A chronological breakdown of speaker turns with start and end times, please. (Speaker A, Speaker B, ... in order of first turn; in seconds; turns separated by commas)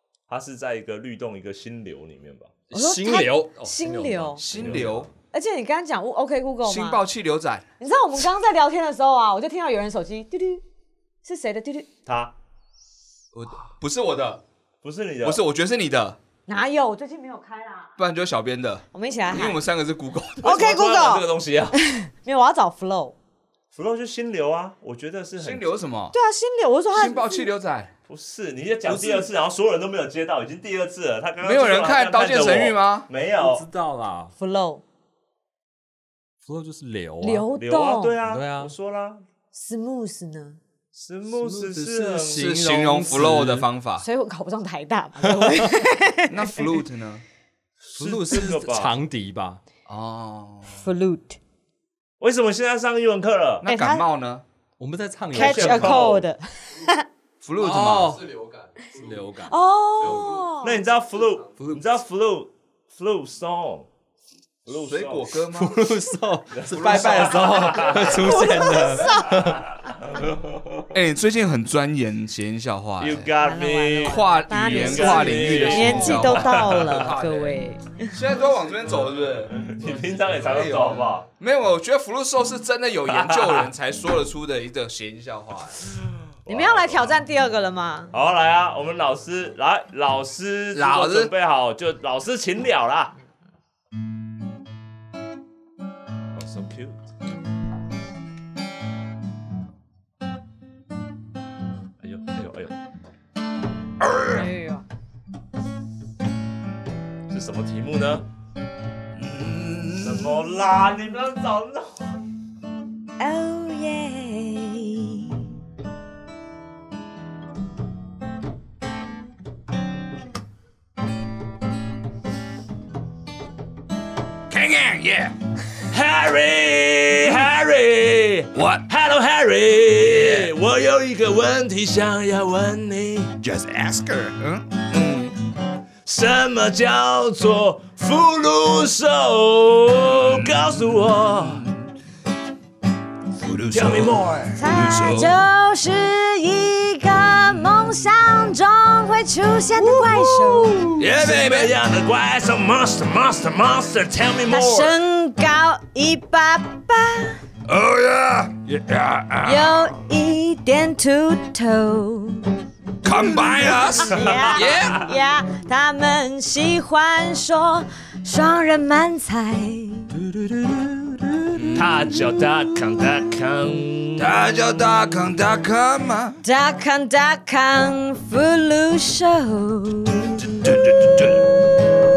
Speaker A: 0.3-2.5, Speaker B: 2.7-5.1, Speaker C: 2.7-4.4, Speaker D: 4.4-5.1, Speaker A: 4.5-5.0, Speaker C: 5.3-7.0, Speaker D: 6.6-7.6, Speaker C: 7.8-10.6, Speaker C: 11.2-11.9, Speaker A: 12.1-12.3, Speaker D: 13.3-14.4, Speaker A: 14.8-15.4, Speaker D: 15.2-16.2, Speaker C: 16.5-17.9, Speaker D: 18.0-20.6, Speaker C: 18.9-19.6, Speaker C: 20.4-23.1, Speaker A: 20.4-21.8, Speaker A: 23.7-25.7, Speaker D: 25.4-26.1, Speaker C: 26.1-27.5, Speaker D: 26.9-27.9, Speaker A: 28.1-33.6, Speaker B: 28.9-29.2, Speaker D: 31.4-33.1, Speaker B: 33.4-34.3, Speaker C: 34.4-34.8, Speaker B: 36.4-37.5, Speaker C: 37.2-38.2, Speaker A: 37.5-39.2, Speaker B: 38.2-38.7, Speaker C: 39.5-40.6, Speaker A: 40.9-42.5, Speaker B: 41.3-43.7, Speaker D: 42.3-44.0, Speaker C: 44.0-46.6, Speaker B: 45.2-45.7, Speaker D: 46.3-47.2, Speaker A: 47.9-48.9, Speaker B: 47.9-49.6, Speaker D: 49.9-50.8, Speaker C: 50.7-51.4, Speaker A: 52.2-53.6, Speaker D: 53.6-54.4, Speaker C: 53.6-54.0, Speaker B: 54.8-56.1, Speaker A: 55.3-56.2, Speaker C: 55.3-57.0, Speaker D: 57.4-58.3, Speaker B: 57.6-60.4, Speaker C: 59.5-60.8, Speaker A: 60.0-63.9, Speaker A: 64.7-65.3, Speaker D: 64.7-65.8, Speaker B: 65.5-69.7, Speaker A: 66.5-68.5, Speaker D: 66.9-67.5, Speaker C: 68.3-69.3, Speaker D: 70.9-73.3, Speaker A: 73.0-77.1, Speaker C: 73.4-78.1, Speaker D: 74.0-77.6, Speaker D: 78.1-79.7, Speaker A: 79.5-81.3, Speaker D: 80.4-85.8, Speaker A: 83.1-83.7, Speaker A: 86.4-87.2, Speaker C: 86.5-88.1, Speaker A: 88.1-93.1, Speaker D: 90.7-91.3, Speaker A: 96.3-96.9, Speaker A: 102.0-102.7, Speaker D: 104.0-104.4, Speaker C: 104.2-104.8, Speaker A: 107.3-108.2, Speaker D: 109.1-110.4, Speaker A: 110.0-112.0, Speaker C: 113.2-115.4, Speaker D: 124.5-125.3, Speaker A: 125.9-133.3, Speaker D: 128.5-128.8, Speaker D: 130.1-130.5, Speaker D: 133.4-135.3, Speaker A: 136.1-141.7, Speaker D: 140.2-141.9, Speaker D: 143.4-145.4, Speaker A: 143.7-144.6, Speaker C: 144.5-151.0, Speaker D: 149.9-151.7, Speaker A: 151.0-155.0, Speaker C: 154.5-157.4, Speaker D: 157.7-159.9, Speaker C: 159.4-162.5, Speaker D: 163.0-165.1, Speaker C: 163.6-170.1, Speaker A: 164.1-165.0, Speaker D: 171.5-172.4, Speaker A: 171.7-174.3, Speaker D: 174.2-176.4, Speaker C: 176.4-180.3, Speaker D: 180.4-181.5